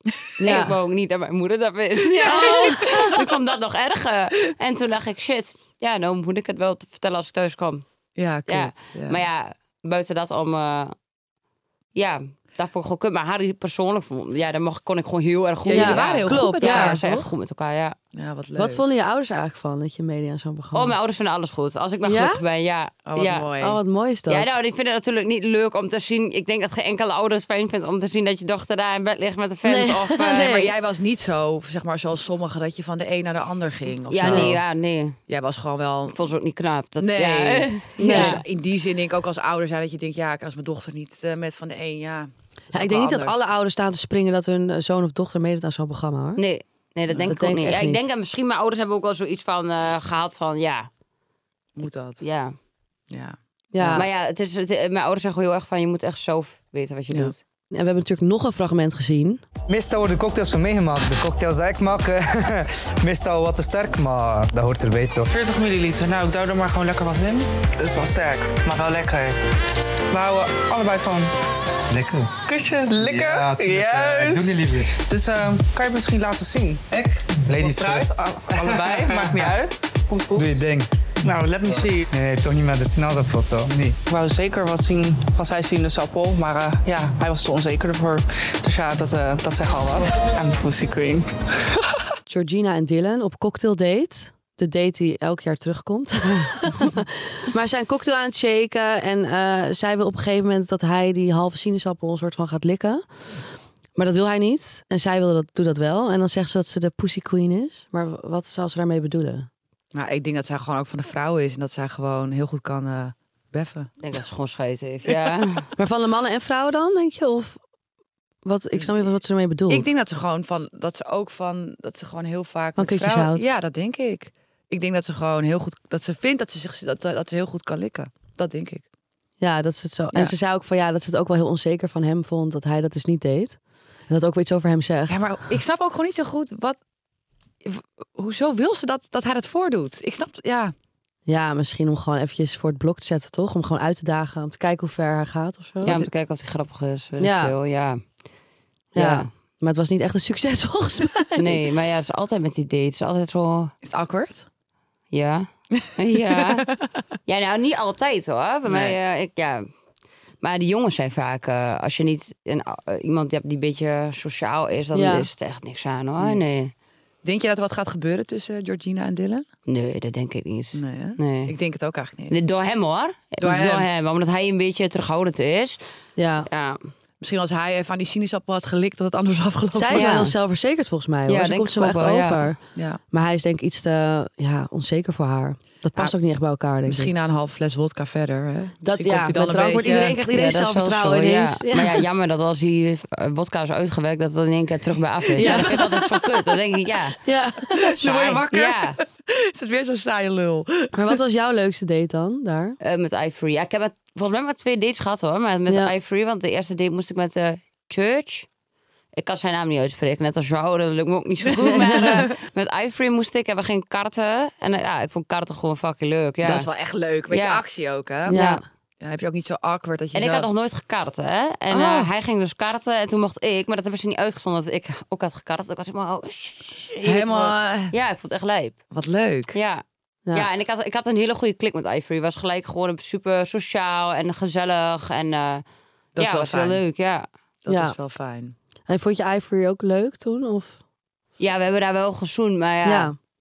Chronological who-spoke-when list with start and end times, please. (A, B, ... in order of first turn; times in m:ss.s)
0:00.4-0:00.8 A
0:00.4-0:07.8 B
0:02.2-0:03.0 C
0:02.2-0:03.1 A
0:08.2-0:09.2 C
0:08.5-0:10.9 B
0:12.0-0:18.0 B
0:15.6-0:17.3 C
0:15.7-0:17.0 A
0:18.1-0:18.8 C
0:18.6-0:20.9 A
0:20.7-0:23.5 B
0:22.0-0:22.4 A
0:23.0-0:23.8 C
0:23.6-0:24.5 A
0:24.3-0:30.5 B
0:29.6-0:30.7 A
0:30.3-0:34.6 C
0:34.1-0:35.2 B
0:34.2-0:34.5 A
0:35.3-0:36.2 C
0:36.1-0:38.4 B
0:37.0-0:43.4 C
0:38.0-0:38.4 A
0:42.7-0:46.4 A
0:46.4-0:50.9 B
0:47.2-0:48.1 A
0:51.8-0:52.2 C
0:52.2-0:52.5 B
0:53.1-0:54.0 C
0:53.7-0:54.0 A
0:53.9-0:57.4 B
0:57.7-0:59.4 A
0:59.7-1:05.3 D
1:05.3-1:09.4 E
1:10.1-1:11.3 E
1:11.9-1:12.3 D
1:12.4-1:16.9 E
1:13.0-1:15.0 D
1:16.9-1:19.5 D
1:17.5-1:20.6 E
1:20.3-1:20.9 D
1:21.2-1:22.1 E
1:21.6-1:24.0 D
1:24.1-1:31.3 E
1:32.3-1:49.5 A
1:49.9-1:53.9 C
1:54.0-1:55.7 B
1:55.8-1:57.6 A
1:58.4-1:59.9 A
1:59.7-2:08.8 C
2:02.8-2:03.4 A
2:09.4-2:15.2 A
2:15.1-2:16.8 C
2:17.6-2:20.7 C
2:21.2-2:26.0 A
2:25.8-2:28.0 B
2:27.2-2:27.5 A
2:28.9-2:29.3 B
2:28.9-2:31.6 A
2:31.4-2:33.7 B
2:33.8-2:34.4 C
2:35.1-2:36.7 B
2:35.8-2:36.9 C
2:37.3-2:39.6 B
2:38.6-2:39.0 C
2:40.4-2:46.7 B
2:44.9-2:45.3 A
2:46.2-2:46.5 C
2:47.2-2:49.4 C
2:49.7-2:51.5 B
2:50.7-2:52.4 C
2:52.3-2:55.8 B
2:53.4-2:53.9 C
2:56.2-2:56.5 A
2:56.5-2:56.8 B
2:57.2-3:00.2 C
2:59.7-3:02.6 A
2:59.9-3:00.3 B
3:01.3-3:02.5 B
3:02.7-3:03.0 C
3:03.1-3:07.1 A
3:06.8-3:10.2 C
3:08.8-3:12.0 A
3:10.2-3:17.2 B
3:15.3-3:15.8 C
3:15.4-3:16.0 A
3:17.2-3:18.0 A
3:17.8-3:21.1 C
3:18.0-3:19.0 B
3:20.9-3:22.8 A
3:22.8-3:28.5 B
3:29.2-3:36.7 B
3:31.6-3:32.3 C
3:31.7-3:32.2 A
3:36.4-3:38.4 C
3:37.3-3:37.6 B
3:38.3-3:38.6 A
3:38.3-3:38.6 B
3:39.0-3:40.5 C
3:40.1-3:48.8 B
3:41.7-3:42.1 C
3:47.0-3:47.9 C
3:48.9-3:49.5 C
3:49.5-3:49.8 B
3:50.3-3:55.6 B
3:56.2-3:56.8 C
3:56.2-3:57.3 B
3:57.6-3:58.5 C
3:57.7-3:57.9 A
3:58.9-4:00.8 A
4:01.4-4:03.1 B
4:02.8-4:03.1 A